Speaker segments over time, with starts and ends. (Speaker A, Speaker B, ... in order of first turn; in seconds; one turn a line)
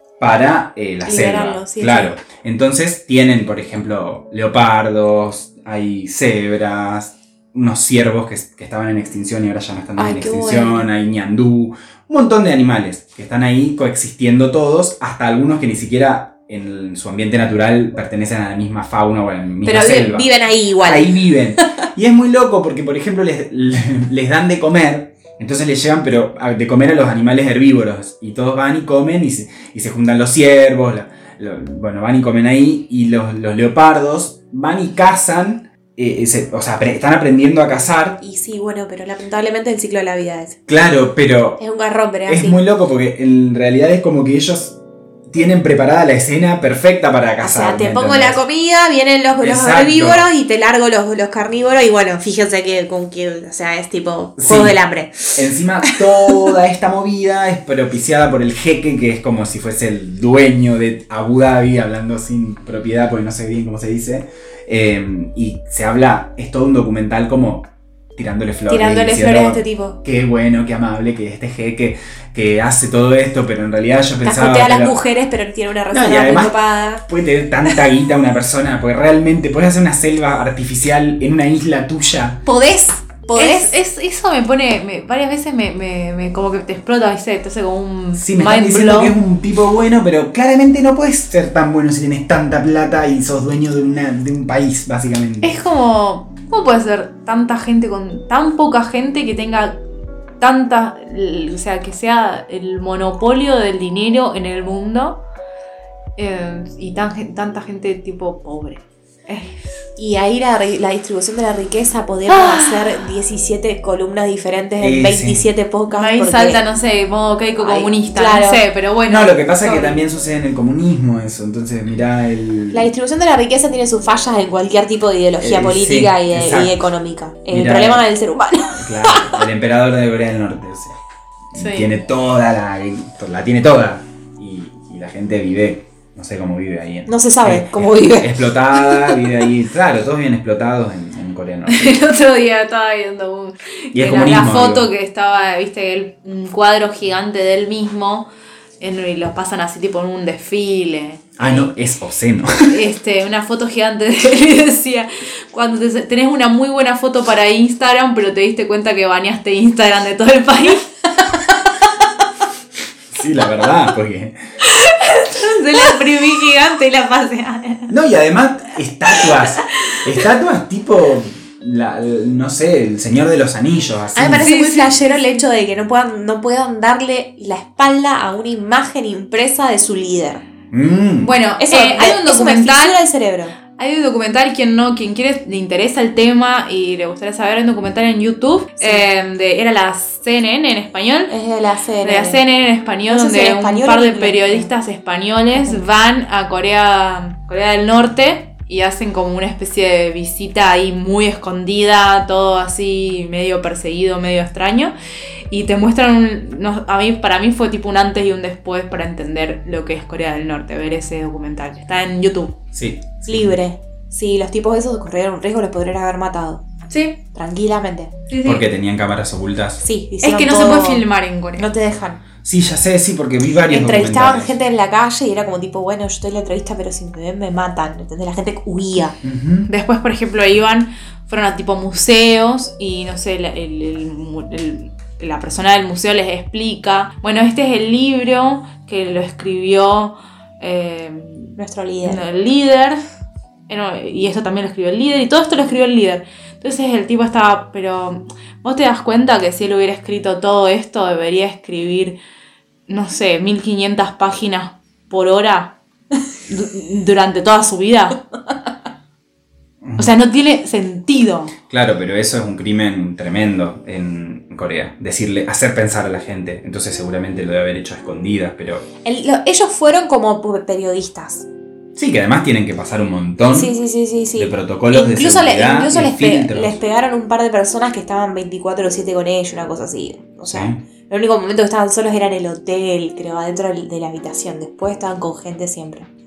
Speaker A: 0.2-20.3
Speaker B: 1.0-2.2
Speaker B: 10.0-10.9
Speaker B: 19.6-21.7
Speaker A: 20.8-38.2
Speaker B: 38.2-40.6
Speaker A: 40.7-41.6
Speaker B: 41.6-42.6
Speaker A: 42.3-44.8
Speaker A: 45.3-48.4
Speaker B: 47.4-56.5
Speaker A: 49.4-50.3
Speaker A: 54.4-54.8
Speaker A: 55.4-75.0
Speaker B: 68.7-70.0
Speaker B: 74.2-77.0
Speaker A: 75.9-76.5
Speaker A: 77.1-82.4
Speaker B: 82.5-83.8
Speaker C: 83.0-89.2
Speaker A: 88.2-95.6
Speaker C: 95.4-99.8
Speaker C: 100.4-105.2
Speaker C: 106.2-109.8
Speaker B: 110.0-116.6
Speaker C: 112.3-112.8
Speaker A: 114.8-115.5
Speaker C: 115.9-120.0
Speaker B: 117.6-118.6
Speaker A: 119.1-122.9
Speaker B: 122.7-129.4
Speaker A: 125.4-126.8
Speaker A: 127.5-128.1
Speaker A: 128.7-131.0
Speaker C: 131.5-131.9
Speaker A: 131.5-142.0
Speaker B: 137.1-139.3
Speaker C: 141.7-148.3
Speaker A: 143.9-144.9
Speaker C: 148.8-151.7
Speaker A: 151.4-152.8
Speaker C: 152.7-161.4
Speaker A: 163.1-164.3
Speaker C: 164.6-167.9
Speaker A: 167.9-174.5
Speaker B: 174.2-180.4
Speaker C: 174.4-175.0
Speaker A: 180.7-181.3
Speaker C: 181.2-183.0
Speaker B: 181.6-183.6
Speaker C: 183.8-191.3
Speaker B: 188.8-189.1
Speaker B: 191.3-192.4
Speaker C: 192.0-204.9
Speaker B: 193.1-194.7
Speaker B: 195.6-195.8
Speaker C: 205.5-212.6
Speaker A: 212.7-213.6
Speaker B: 213.3-216.6
Speaker C: 216.9-217.2
Speaker B: 217.3-218.1
Speaker C: 218.3-218.6
Speaker A: 218.4-219.8
Speaker B: 219.8-221.1
Speaker C: 220.2-221.7
Speaker B: 221.6-222.2
Speaker A: 222.4-224.5
Speaker B: 223.7-229.2
Speaker A: 229.2-229.7
Speaker C: 229.7-243.0
Speaker B: 241.6-242.2
Speaker C: 243.7-252.2
Speaker C: 252.9-255.8
Speaker C: 256.5-258.2
Speaker A: 259.8-260.1
Speaker C: 260.0-261.5
Speaker A: 261.7-268.9
Speaker B: 269.1-271.5
Speaker A: 272.0-273.8
Speaker B: 273.5-286.1
Speaker A: 274.4-276.8
Speaker A: 280.5-280.8